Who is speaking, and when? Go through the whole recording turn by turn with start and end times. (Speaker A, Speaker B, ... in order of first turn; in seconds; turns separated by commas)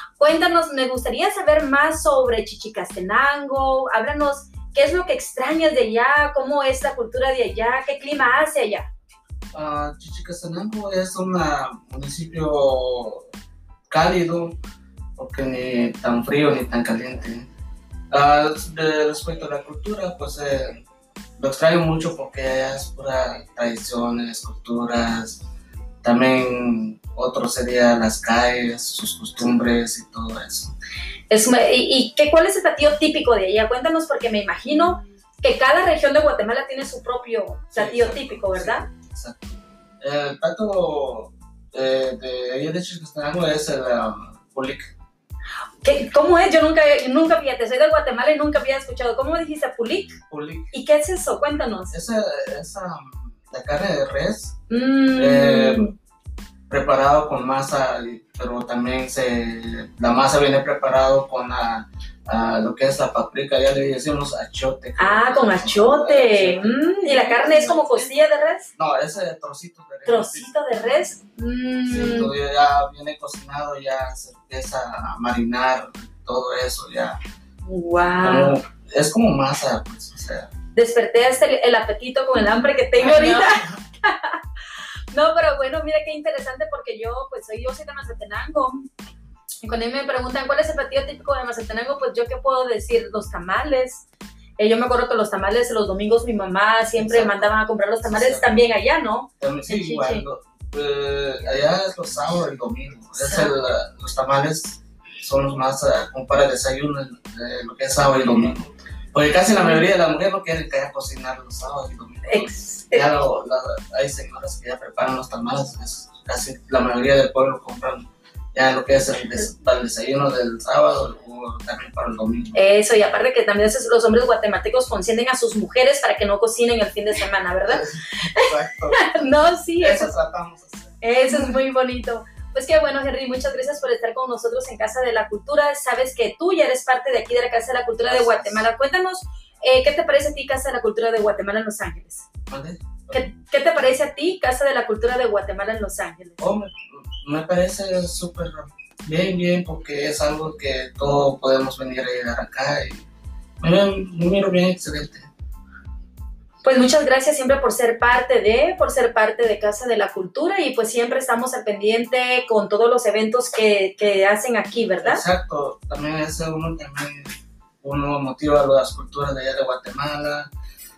Speaker A: 0.2-8.9, Speaker B: 9.5-13.3, Speaker B: 13.9-14.6, Speaker B: 15.2-17.5, Speaker B: 18.1-20.9, Speaker B: 21.4-25.4, Speaker B: 26.0-30.7, Speaker A: 31.3-38.9, Speaker B: 37.7-44.9, Speaker A: 45.8-50.2, Speaker B: 50.3-50.7, Speaker A: 50.7-51.9, Speaker B: 51.9-54.5, Speaker A: 54.7-55.9, Speaker B: 55.2-55.9, Speaker B: 56.7-67.9, Speaker A: 65.0-68.7, Speaker B: 68.8-70.5, Speaker A: 70.1-72.3, Speaker B: 71.8-77.2, Speaker A: 77.7-78.6, Speaker B: 78.2-80.5, Speaker A: 80.7-84.4, Speaker B: 83.0-83.7, Speaker A: 85.1-88.9, Speaker A: 89.6-94.1, Speaker A: 94.6-100.2, Speaker B: 97.0-98.7, Speaker B: 99.4-122.6, Speaker A: 103.2-103.5, Speaker A: 112.3-113.1, Speaker A: 122.5-130.1, Speaker B: 127.7-129.2, Speaker B: 129.8-131.6, Speaker A: 131.0-142.3, Speaker B: 138.0-138.7, Speaker B: 142.5-143.3, Speaker A: 143.1-146.5, Speaker B: 146.4-153.1, Speaker B: 153.6-155.3, Speaker A: 156.6-165.2, Speaker B: 165.0-170.5